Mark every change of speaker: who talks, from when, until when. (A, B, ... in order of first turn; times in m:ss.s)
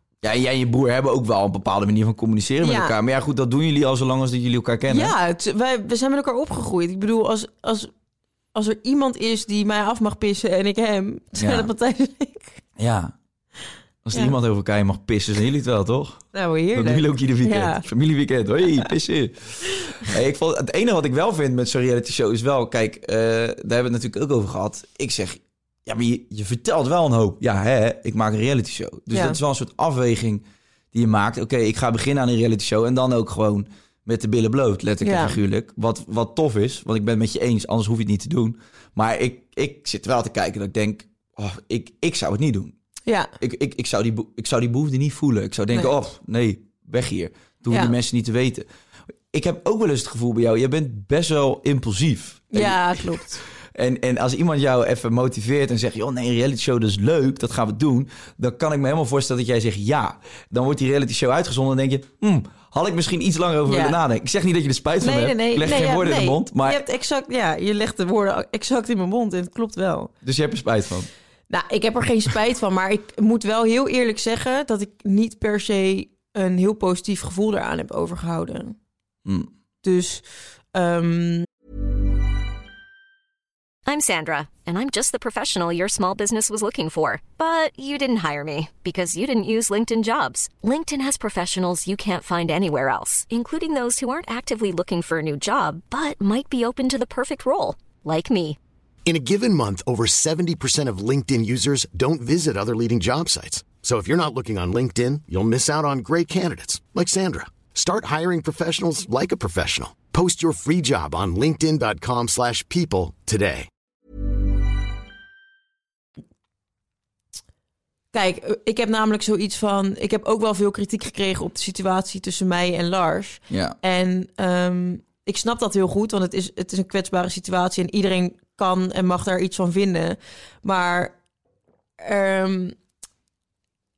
0:00.2-0:05.1 A
0:02.6-0:02.9 B
0:04.9-0:07.9 B
0:08.5-0:12.6 B
0:11.4-0:11.7 A
0:12.8-0:13.2 A
0:14.0-0:42.8 A
0:16.3-0:17.8 B
0:29.1-0:29.4 B
0:35.0-0:35.4 B
0:43.1-0:43.3 B
0:43.4-0:48.7 A
0:49.3-1:06.8 A
0:52.5-0:53.4 B
1:03.7-1:04.0 B
1:05.0-1:10.1 B
1:10.2-1:11.1 A
1:11.5-1:18.8 B
1:19.2-1:19.5 A
1:19.8-1:21.4 B
1:23.9-1:38.6 C
1:39.1-1:53.7 D
1:58.1-2:11.2 B
2:03.5-2:03.8 A
2:12.0-2:12.8 B